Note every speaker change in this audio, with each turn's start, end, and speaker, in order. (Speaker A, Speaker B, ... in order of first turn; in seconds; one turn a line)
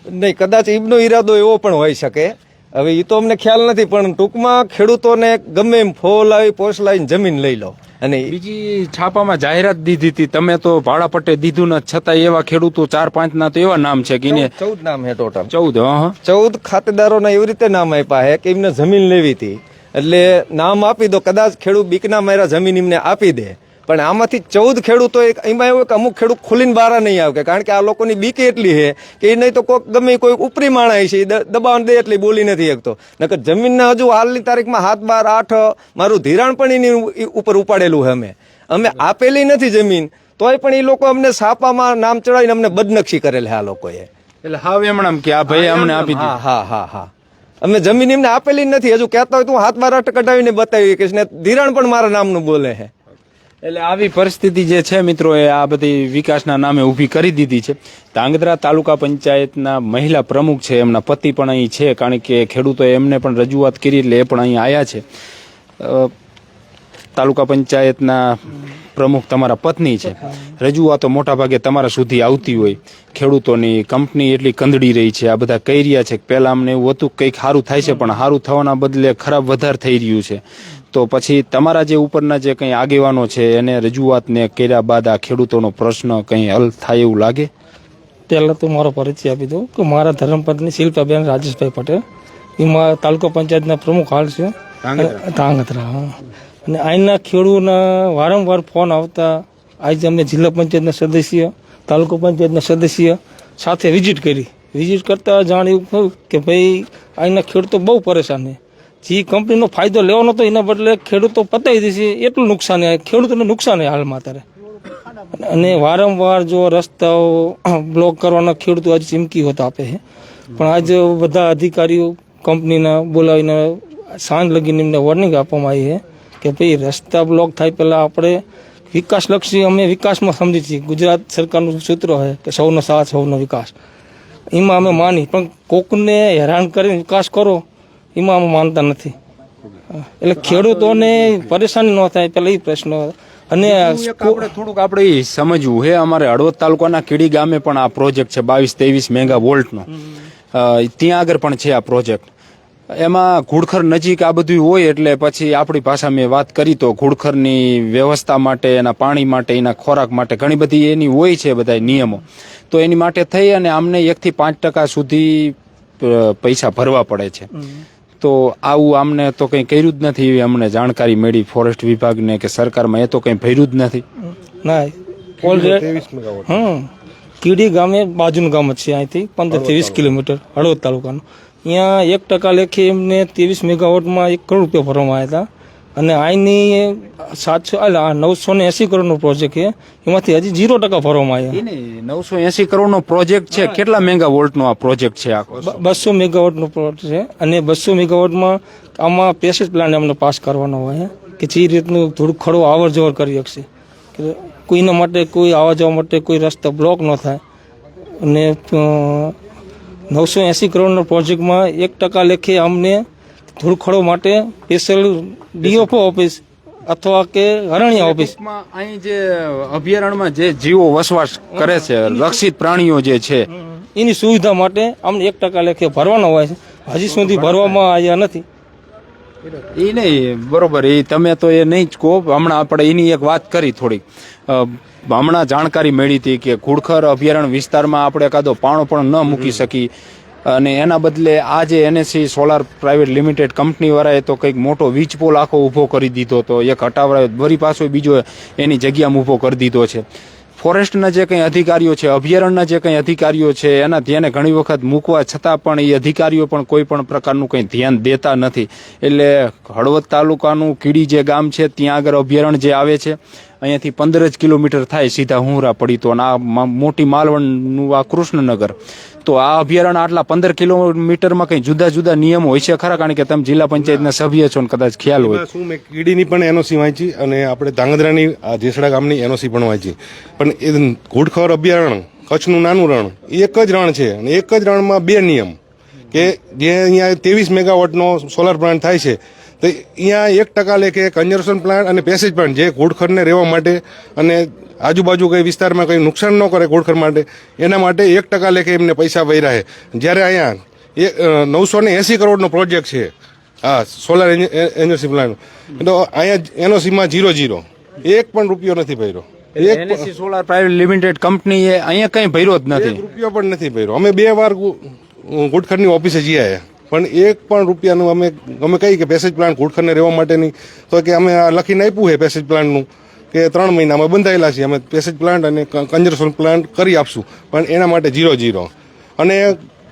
Speaker A: 0.1-8.3
Speaker B: 8.3-14.5
Speaker A: 14.2-15.5
Speaker B: 15.5-16.1
Speaker A: 16.2-44.1
Speaker B: 44.4-46.4
Speaker A: 45.5-47.1
Speaker A: 47.6-52.9
Speaker B: 53.6-65.0
Speaker B: 65.8-66.1
Speaker B: 67.2-80.4
Speaker B: 80.9-87.5
Speaker C: 88.3-92.0
Speaker C: 92.6-114.4
Speaker B: 94.8-95.2
Speaker C: 115.3-120.0
Speaker C: 120.5-133.7
Speaker C: 134.5-137.6
Speaker C: 138.1-139.1
Speaker C: 140.2-144.5
Speaker B: 140.4-141.1
Speaker B: 143.6-149.9
Speaker B: 150.5-152.3
Speaker B: 152.9-167.5
Speaker B: 168.2-174.0
Speaker C: 174.6-175.9
Speaker D: 175.4-176.7
Speaker C: 176.5-176.9
Speaker C: 177.4-191.6
Speaker D: 179.5-180.1
Speaker B: 191.5-195.8
Speaker C: 195.6-203.6
Speaker C: 204.2-207.4
Speaker C: 208.2-209.3
Speaker C: 210.1-213.0
Speaker C: 213.6-218.3
Speaker B: 217.9-223.5
Speaker C: 221.6-222.3
Speaker C: 223.6-228.4
Speaker B: 227.1-227.8
Speaker B: 229.8-239.9
Speaker B: 240.4-250.0
Speaker B: 250.6-275.4
Speaker D: 273.8-274.1
Speaker D: 275.2-285.5
Speaker D: 286.1-303.1
Speaker D: 303.6-310.1
Speaker B: 309.6-313.0
Speaker D: 312.7-329.6